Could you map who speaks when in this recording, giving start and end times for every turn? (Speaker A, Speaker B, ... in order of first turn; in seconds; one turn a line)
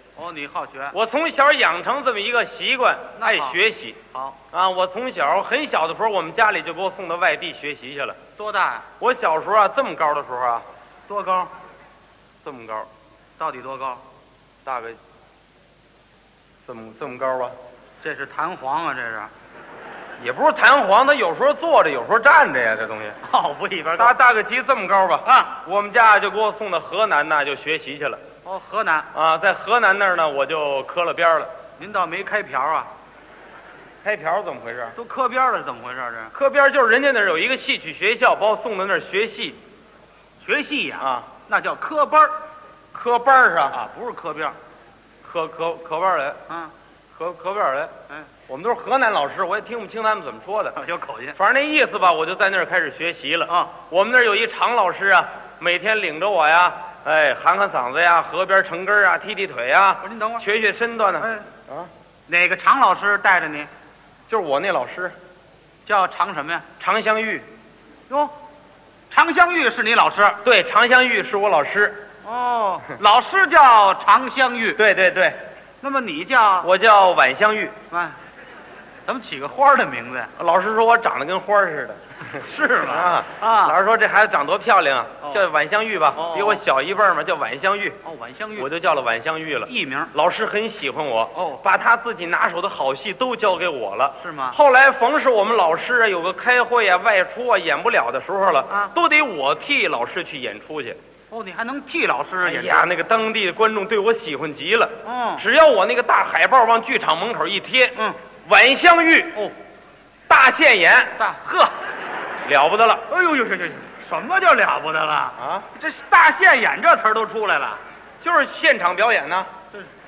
Speaker A: 0.2-0.9
Speaker B: 0.9-4.0
Speaker A: 3.2-3.6
Speaker A: 4.1-4.4
Speaker B: 4.5-8.2
Speaker A: 8.4-8.9
Speaker B: 9.0-10.6
Speaker A: 11.1-11.5
Speaker B: 12.4-12.9
Speaker A: 13.4-14.0
Speaker B: 14.6-15.0
Speaker B: 16.6-17.5
Speaker A: 18.0-19.3
Speaker B: 20.2-23.2
Speaker A: 23.2-24.2
Speaker B: 24.0-28.2
Speaker A: 25.2-25.5
Speaker A: 28.4-29.1
Speaker B: 29.1-31.5
Speaker A: 31.8-32.9
Speaker B: 34.0-35.0
Speaker A: 35.0-36.3
Speaker B: 36.3-39.6
Speaker A: 40.4-42.3
Speaker B: 41.0-41.3
Speaker B: 42.9-43.8
Speaker A: 43.7-44.6
Speaker B: 45.2-46.4
Speaker B: 47.1-47.9
Speaker B: 48.5-50.8
Speaker A: 50.8-51.4
Speaker B: 51.3-61.9
Speaker A: 60.0-60.4
Speaker A: 61.2-61.5
Speaker A: 62.3-63.7
Speaker B: 64.3-65.1
Speaker A: 65.8-66.7
Speaker B: 66.8-67.5
Speaker A: 69.1-70.4
Speaker B: 70.4-72.0
Speaker A: 72.2-74.8
Speaker B: 74.8-75.4
Speaker A: 75.8-76.7
Speaker B: 76.6-77.8
Speaker A: 77.9-78.2
Speaker A: 79.0-80.3
Speaker B: 80.4-88.0
Speaker A: 82.3-83.8
Speaker A: 86.1-86.6
Speaker A: 88.0-88.7
Speaker B: 88.6-101.0
Speaker A: 89.7-90.1
Speaker A: 91.3-91.6
Speaker A: 94.2-94.6
Speaker A: 98.7-98.9
Speaker A: 101.3-102.9
Speaker B: 102.4-109.4
Speaker A: 105.0-105.5
Speaker B: 110.3-111.1
Speaker A: 111.2-111.8
Speaker B: 112.4-113.0
Speaker A: 113.1-117.8
Speaker B: 115.3-115.7
Speaker B: 118.2-119.5